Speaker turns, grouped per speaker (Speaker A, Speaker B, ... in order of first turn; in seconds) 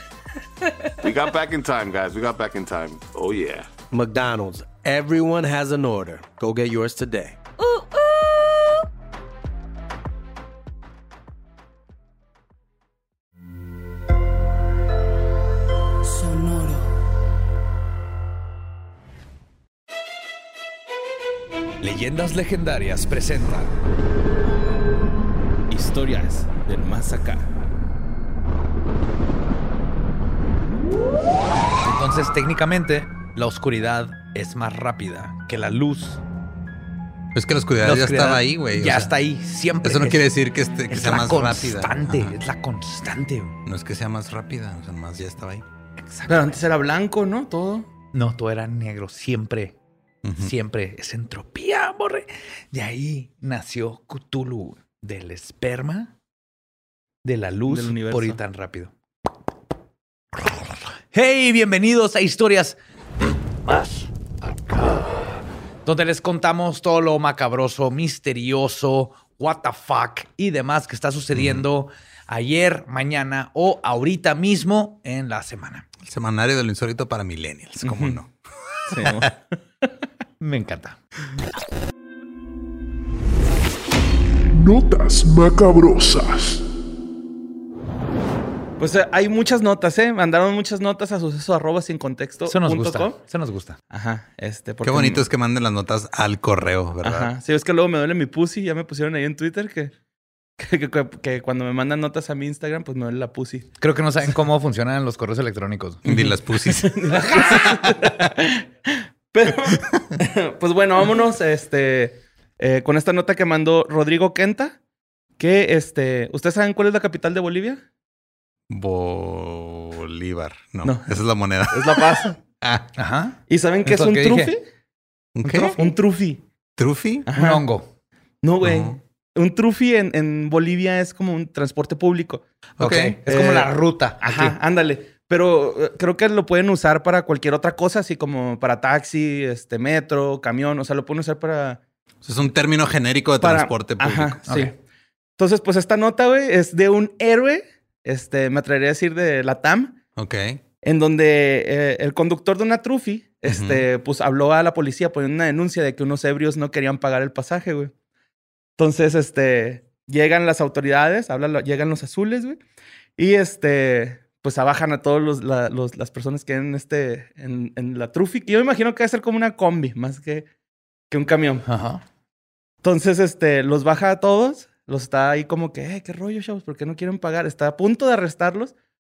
Speaker A: 1.0-3.7
Speaker B: 3.9-7.4
Speaker C: 7.6-8.9, 16.1-16.8
Speaker D: 21.8-23.7, 31.8-36.2, 37.8-40.2, 40.9-43.5, 46.0-46.6, 48.1-49.8, 50.4-56.1, 57.2-58.9, 60.4-62.8, 63.6-75.9, 80.4-81.0, 92.5-93.8, 103.8-106.0, 123.0-124.5, 125.4-125.9, 127.3-127.9, 132.8-134.6, 144.5-144.7, 171.7-172.0
Speaker E: 25.7-27.5, 46.3-47.9, 57.7-58.4, 77.8-78.2, 78.9-79.3, 88.8-93.2, 93.9-95.3, 97.0-99.9, 100.6-103.7, 106.1-114.8, 115.4-117.8, 120.8-122.4, 123.5-124.6, 125.8-126.4, 127.3-127.7, 128.4-132.4, 133.3-141.8, 143.4-144.8, 145.4-150.0, 150.8-157.9, 158.8-162.6, 163.2-170.5, 171.1-171.7, 172.8-178.7
Speaker F: 37.4-39.1, 39.8-42.4, 43.7-45.6, 50.2-50.5, 71.3-71.6, 76.0-78.3, 78.9-79.2, 94.8-97.3, 106.0-107.7, 118.7-122.9, 125.4-125.8, 126.8-127.3, 128.6-129.0, 132.8-133.2, 142.2-144.4, 150.2-150.6, 153.5-153.8
Speaker G: 84.5-86.6